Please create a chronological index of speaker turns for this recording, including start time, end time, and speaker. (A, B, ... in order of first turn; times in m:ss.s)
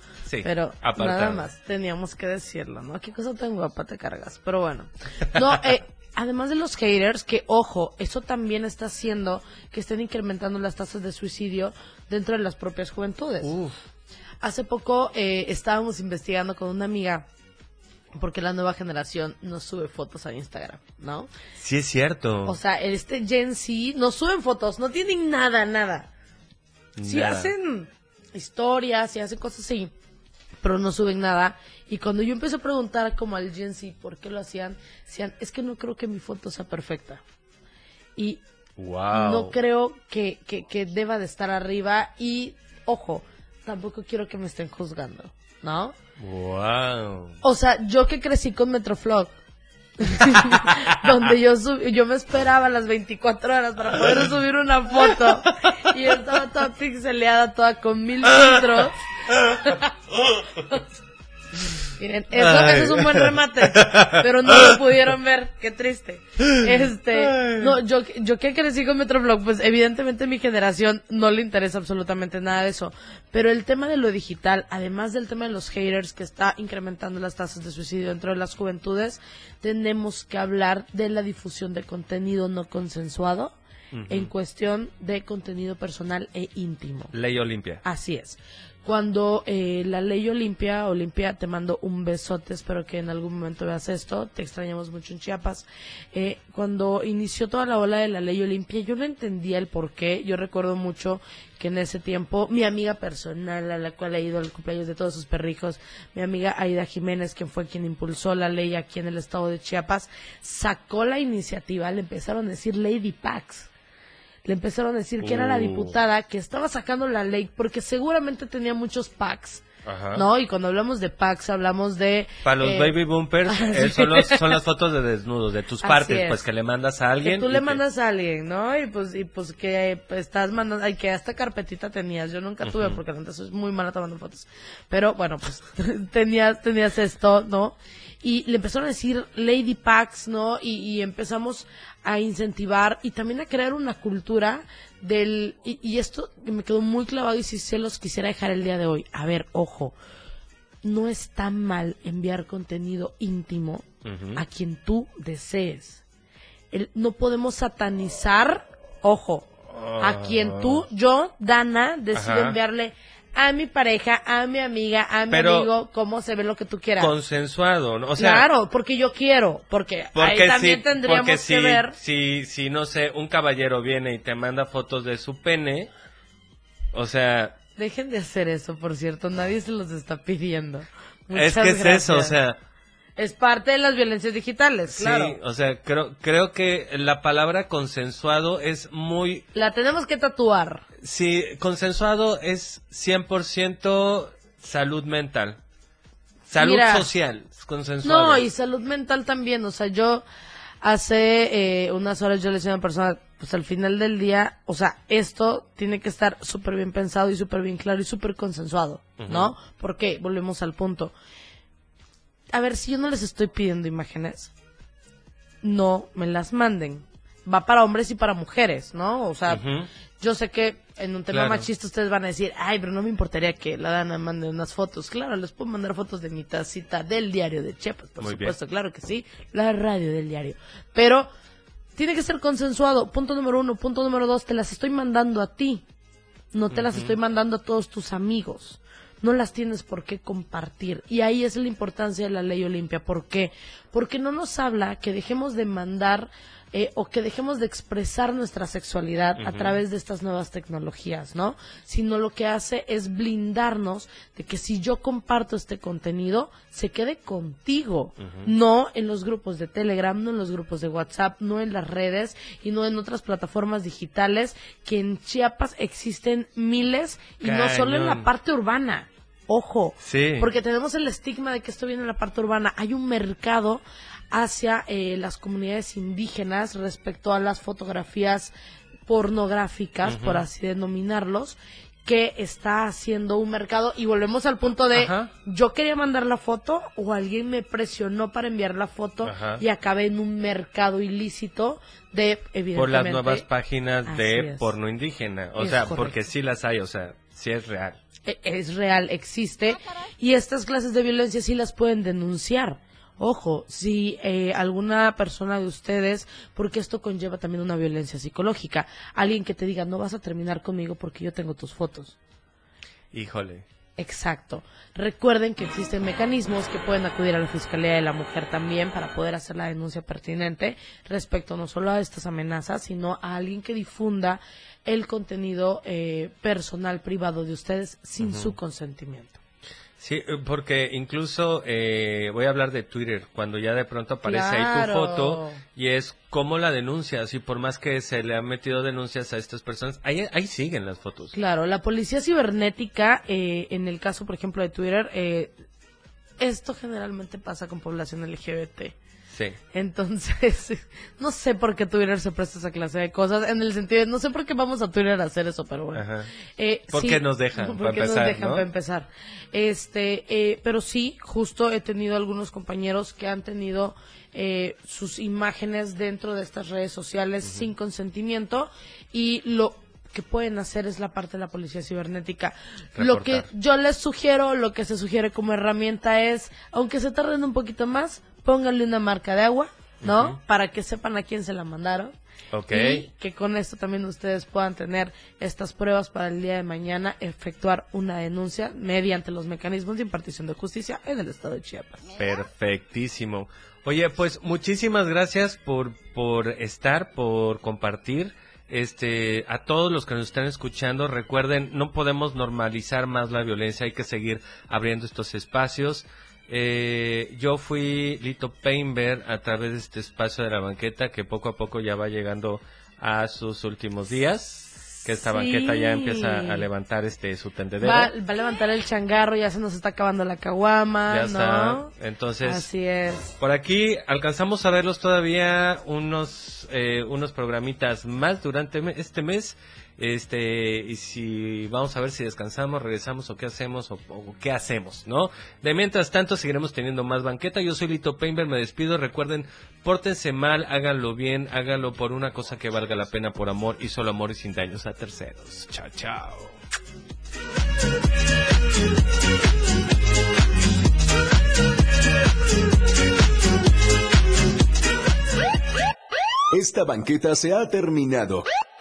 0:00.3-0:01.5 A
0:00.4-0:13.5 B
0:13.4-0:13.8 A
0:14.4-0:17.3 B
0:18.2-0:21.3 B
0:21.6-0:22.6 A
0:22.4-0:26.1 B
0:27.0-0:27.5 A
0:27.0-0:29.9 B
0:30.6-0:37.2 B
0:38.2-0:38.4 B
0:38.8-0:39.6 A
0:39.1-0:46.0 B
0:46.2-0:47.4 A
0:47.4-0:49.3 B
0:50.0-0:59.0 B
0:50.3-0:50.7 A
0:59.5-0:59.9 B
1:02.0-1:23.6 B
1:02.4-1:04.7 A
1:06.4-1:07.8 A
1:23.9-1:24.3 A
1:24.1-1:27.1 B
1:27.1-1:27.8 A
1:27.8-1:53.7 B
1:54.4-1:59.6 B
1:55.2-1:56.0 A
1:59.8-2:00.3 A
2:00.1-2:04.6 B
2:02.4-2:07.8 A
2:05.8-2:06.4 B
2:07.2-2:30.0 B
2:12.6-2:13.0 A
2:30.8-2:36.0 B
2:34.0-2:34.4 A
2:36.7-2:47.1 B
2:39.7-2:40.9 A
2:42.2-2:42.6 A
2:45.3-2:45.7 A
2:47.0-2:48.5 A
2:48.2-2:52.0 B
2:50.2-2:55.9 A
2:56.9-2:57.6 A
2:57.8-3:02.4 B
3:01.3-3:02.6 A
3:03.2-3:05.4 B
3:04.9-3:09.5 A
3:09.5-3:10.8 B
3:11.0-3:15.6 A
3:16.5-3:18.5 A
3:16.6-3:17.1 B
3:18.0-3:20.3 B
3:20.8-3:31.1 B
3:29.2-3:29.5 A
3:32.5-3:34.5 B
3:35.6-3:39.6 B
3:39.5-3:39.9 A
3:40.2-3:51.3 B
3:41.3-3:41.7 A
3:48.2-3:48.6 A
3:52.0-3:55.8 B
3:56.5-4:38.5 B
3:56.7-3:57.2 A
4:09.4-4:09.8 A
4:18.2-4:18.5 A
4:27.4-4:28.3 A
4:30.0-4:30.5 A
4:39.1-4:53.5 B
4:40.0-4:40.5 A
4:44.9-4:45.3 A
4:49.2-4:49.6 A
4:52.8-4:58.0 A
4:54.1-4:54.7 B
4:55.6-4:56.2 B
4:58.2-5:12.2 B
5:13.1-5:13.6 A
5:14.0-5:29.4 B
5:28.2-5:28.6 A
5:30.0-5:41.4 A
5:34.2-5:35.6 B
5:41.3-5:45.6 B
5:46.4-5:49.0 B
5:49.3-5:49.6 A
5:49.7-6:22.1 B
5:56.0-5:56.3 A
5:56.9-5:58.7 A
6:13.0-6:13.5 A
6:20.0-6:20.4 A
6:22.5-6:23.1 A
6:22.7-6:32.0 B
6:32.2-6:58.1 A
6:55.1-6:56.7 B
6:57.8-7:01.9 B
7:01.1-7:02.7 A
7:02.4-7:03.3 B
7:03.4-7:26.6 A
7:36.5-7:38.5 C